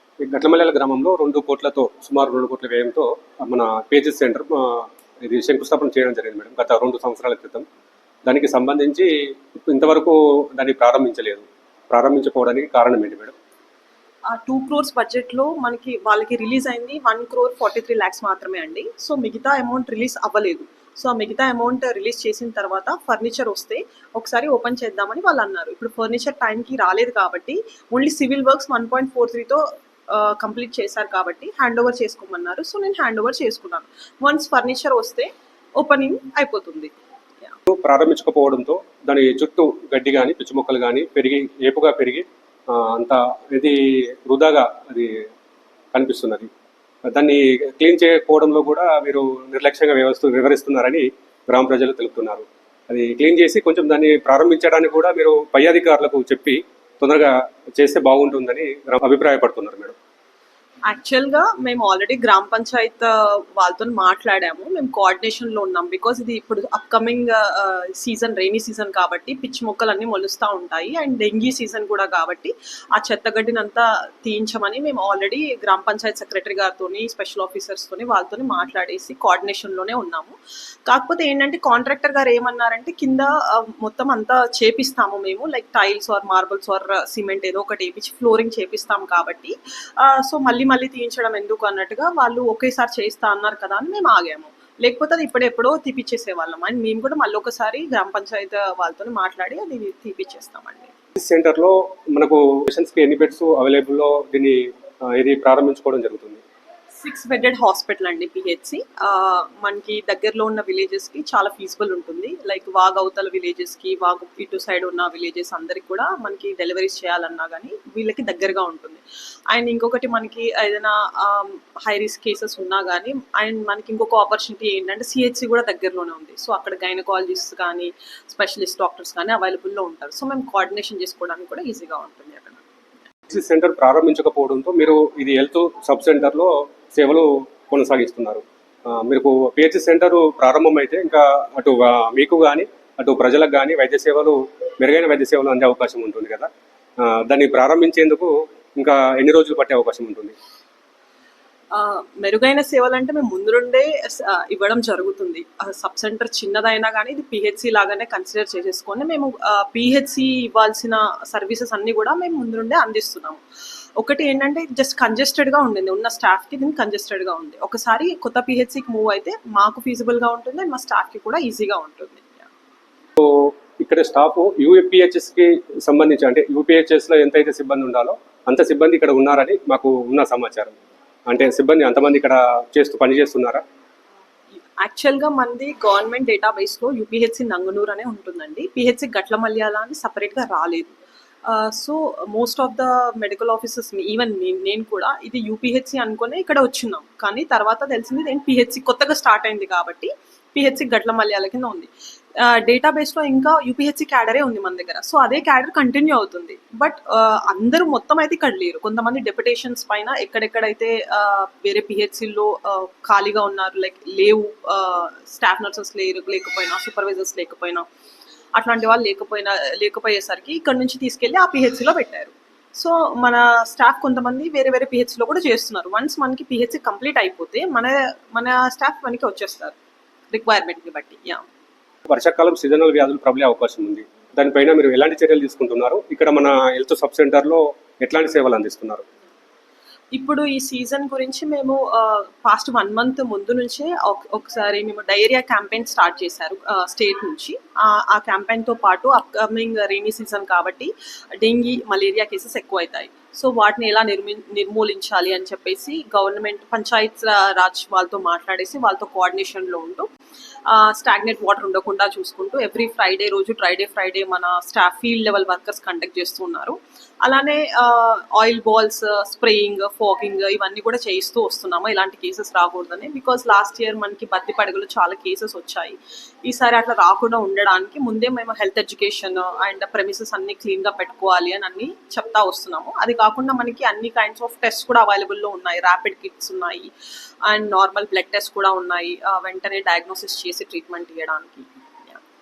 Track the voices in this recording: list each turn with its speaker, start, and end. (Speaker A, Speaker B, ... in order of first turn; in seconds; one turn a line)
Speaker A: 0.2-7.7
Speaker A: 8.3-9.1
Speaker A: 9.7-13.3
Speaker B: 14.3-36.9
Speaker A: 37.7-45.1
Speaker A: 45.9-46.5
Speaker A: 47.1-60.0
Speaker B: 60.9-80.4
Speaker B: 80.9-100.9
Speaker A: 101.2-104.6
Speaker A: 105.1-106.4
Speaker B: 107.0-132.6
Speaker A: 133.3-146.5
Speaker A: 147.0-150.3
Speaker B: 151.7-163.4
Speaker B: 164.0-172.5
Speaker A: 173.2-180.8
Speaker A: 181.3-183.6
Speaker B: 184.8-190.9
Speaker B: 191.5-201.9
Speaker B: 202.4-217.8
Speaker B: 218.6-229.8
Speaker B: 230.3-231.4
Speaker A: 232.1-239.0
Speaker B: 240.1-260.1
Speaker B: 260.7-286.9
Speaker B: 287.5-292.2